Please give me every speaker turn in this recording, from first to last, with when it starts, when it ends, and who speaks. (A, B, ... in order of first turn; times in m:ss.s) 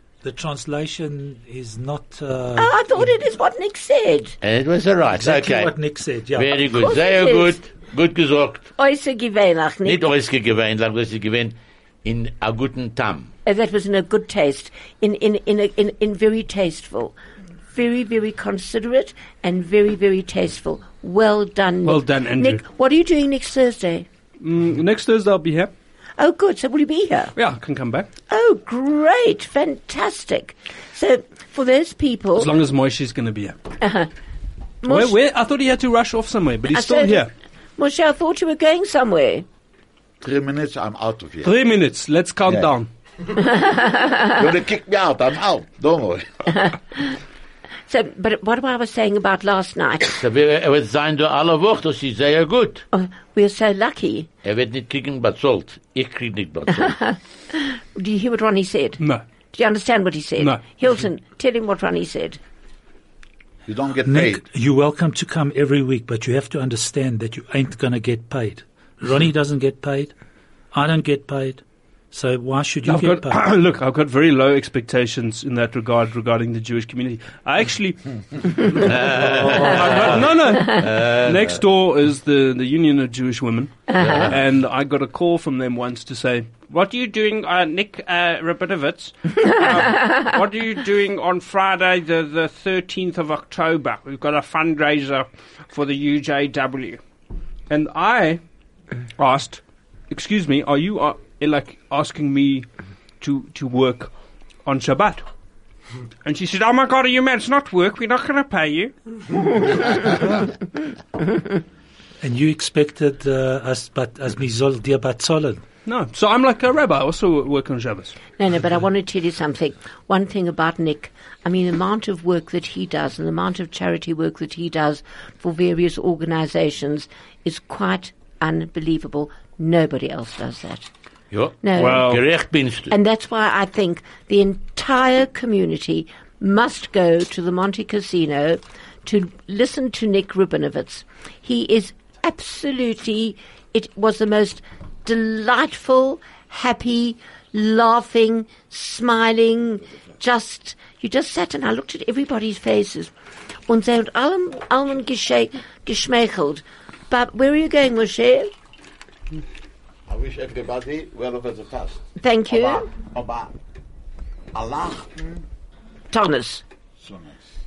0:00.2-0:03.0 A
0:02.6-0:04.4 B
0:04.4-0:05.7 C
0:05.1-0:06.6 A
0:06.3-0:08.7 C
0:06.7-0:07.6 B
0:08.8-0:10.0 B
0:09.8-0:13.3 C
0:13.4-0:17.2 B
0:17.7-0:24.0 B
0:21.8-0:22.6 D
0:24.4-0:25.7 D
0:26.2-0:27.3 B
0:27.4-0:28.1 D
0:28.3-0:32.5 B
0:32.4-0:33.6 D
0:33.8-0:34.1 B
0:34.8-0:35.2 B
0:34.9-0:37.3 D
0:36.7-0:37.3 B
0:37.8-0:39.4 B
0:40.2-0:41.6 E
0:41.4-0:42.9 D
0:42.4-0:42.7 E
0:43.4-0:44.3 B
0:44.3-0:46.2 E
0:46.5-0:47.1 B
0:47.9-0:50.2 B
0:50.2-0:52.8 C
0:52.9-0:54.3 B
0:54.4-0:56.9 C
0:56.7-0:59.0 B
0:59.5-1:02.4 B
1:03.7-1:04.4 E
1:04.0-1:10.1 A
1:10.7-1:13.4 A
1:12.8-1:18.8 D
1:18.7-1:21.6 C
1:19.4-1:19.7 A
1:19.5-1:37.0 D
1:23.9-1:24.3 B
1:24.0-1:24.4 C
1:37.7-1:38.4 D
1:39.2-1:42.7 D
1:43.2-1:44.1 D
1:44.6-1:45.2 D
1:46.2-1:48.9 D
1:52.2-1:55.6 A
1:55.8-1:58.2 D
1:58.4-2:10.9 B
2:11.3-2:12.9 C
2:11.6-2:12.2 B
2:11.8-2:12.2 D
2:12.9-2:33.1 B
2:33.7-2:38.5 B
2:40.1-2:43.5 E
2:42.2-2:42.9 B
2:44.5-2:45.4 E
2:46.1-2:46.6 B
2:47.0-2:47.4 E